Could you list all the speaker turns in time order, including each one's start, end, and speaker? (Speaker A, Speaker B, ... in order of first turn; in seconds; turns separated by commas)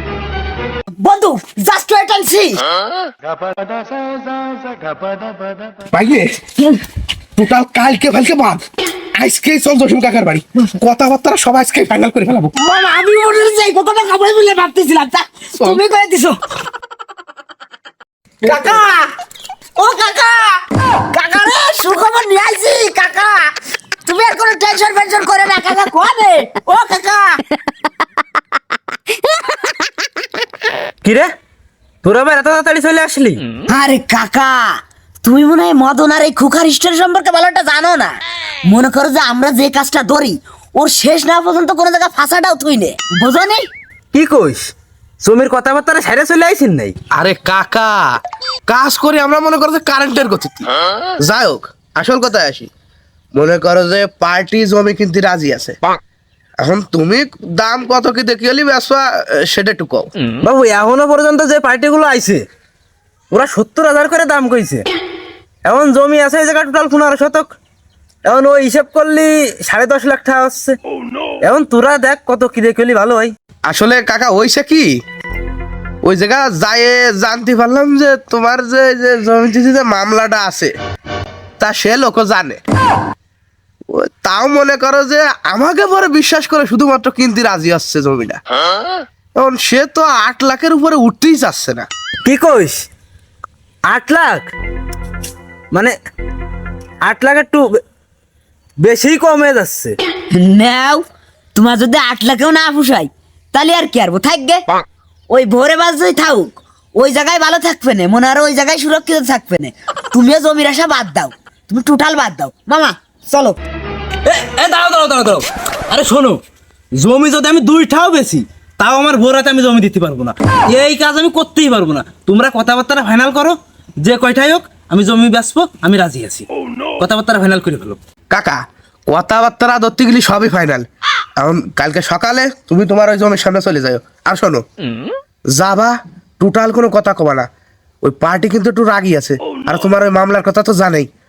Speaker A: 1.0-2.6, Speaker B: 5.8-6.5, Speaker B: 7.3-8.6, Speaker B: 9.2-12.5, Speaker A: 12.6-16.4, Speaker A: 18.4-19.1, Speaker B: 18.5-18.8, Speaker A: 19.8-27.4, Speaker C: 31.0-31.3, Speaker C: 32.0-33.4, Speaker A: 33.7-43.7, Speaker C: 44.1-47.0, Speaker B: 47.1-52.7, Speaker B: 53.3-55.8, Speaker B: 56.6-60.1, Speaker C: 60.4-62.4, Speaker C: 63.3-64.9, Speaker C: 65.6-67.5, Speaker C: 68.2-70.8, Speaker C: 71.4-73.3, Speaker B: 73.7-75.0, Speaker B: 76.0-80.7, Speaker B: 81.6-82.6, Speaker B: 83.9-88.4, Speaker B: 89.3-91.9, Speaker C: 92.2-92.8, Speaker C: 93.9-94.5, Speaker C: 97.0-97.7, Speaker C: 98.8-99.9, Speaker A: 100.3-101.0, Speaker A: 101.5-104.7, Speaker A: 105.3-113.6, Speaker C: 114.2-116.4, Speaker C: 117.0-126.5, Speaker C: 127.0-128.0, Speaker B: 128.3-130.8, Speaker B: 131.4-134.6, Speaker B: 135.5-137.5, Speaker B: 138.0-141.1